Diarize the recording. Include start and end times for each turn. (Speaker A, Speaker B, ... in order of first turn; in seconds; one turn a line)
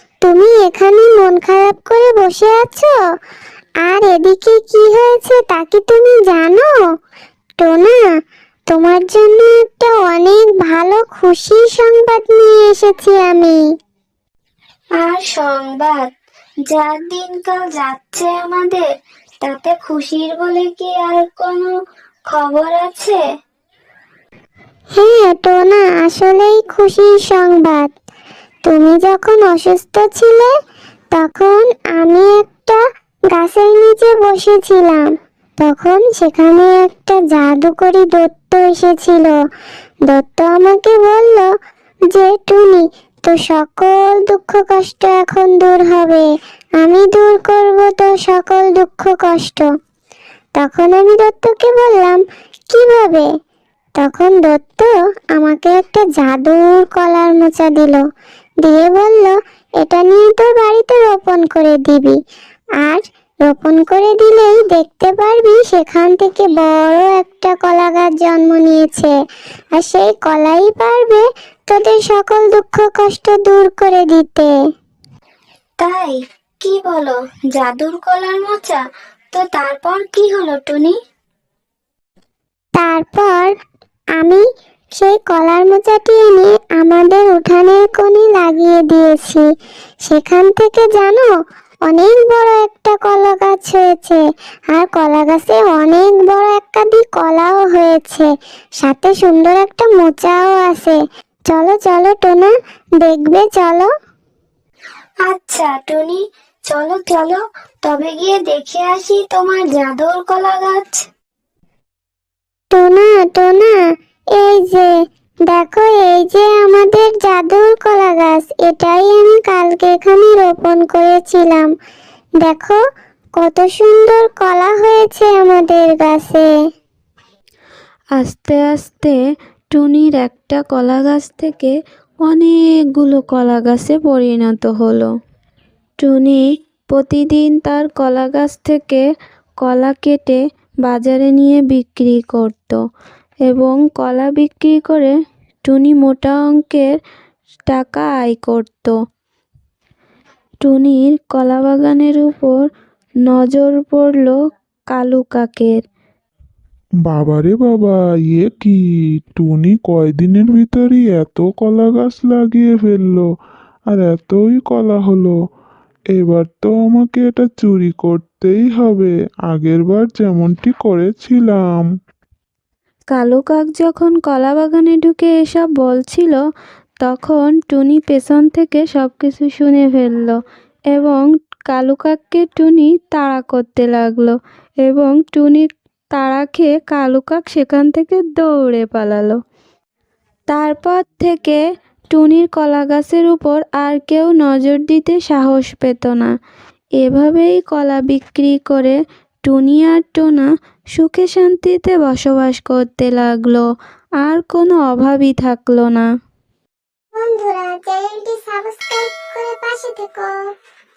Speaker A: 0.2-2.9
Speaker A: 3.8-6.7
Speaker A: 7.6-8.0
Speaker A: 8.7-13.6
Speaker B: 14.9-16.1
Speaker B: 16.7-18.8
Speaker B: 19.4-21.7
Speaker B: 22.3-23.2
Speaker A: 24.9-27.9
Speaker A: 28.6-30.5
Speaker A: 31.1-32.8
Speaker A: 33.3-35.0
Speaker A: 35.6-39.3
Speaker A: 40.1-41.5
Speaker A: 42.1-46.3
Speaker A: 46.8-49.7
Speaker A: 50.6-53.3
Speaker A: 54.0-58.0
Speaker A: 58.6-62.2
Speaker A: 62.8-69.1
Speaker A: 69.8-74.5
Speaker B: 75.8-78.8
Speaker B: 79.3-80.9
Speaker A: 82.8-83.5
Speaker A: 84.2-84.4
Speaker A: 85.0-89.4
Speaker A: 90.0-91.3
Speaker A: 91.9-94.2
Speaker A: 94.7-98.3
Speaker A: 98.8-101.0
Speaker A: 101.5-103.9
Speaker B: 105.2-111.0
Speaker A: 112.7-113.7
Speaker A: 114.3-114.9
Speaker A: 115.5-121.7
Speaker A: 122.4-122.8
Speaker A: 123.4-126.5
Speaker C: 128.2-129.2
Speaker C: 129.7-131.7
Speaker C: 132.2-135.1
Speaker C: 136.0-139.0
Speaker C: 139.6-142.8
Speaker C: 143.4-146.9
Speaker C: 147.7-148.9
Speaker C: 150.6-152.6
Speaker C: 153.2-154.3
Speaker C: 154.9-155.8
Speaker D: 157.1-158.8
Speaker D: 159.3-163.3
Speaker D: 163.9-165.3
Speaker D: 166.1-171.9
Speaker C: 173.1-176.4
Speaker C: 177.0-180.4
Speaker C: 180.9-189.4
Speaker C: 190.5-191.6
Speaker C: 192.1-196.3
Speaker C: 197.0-203.7
Speaker C: 204.2-206.1
Speaker A: 207.1-210.4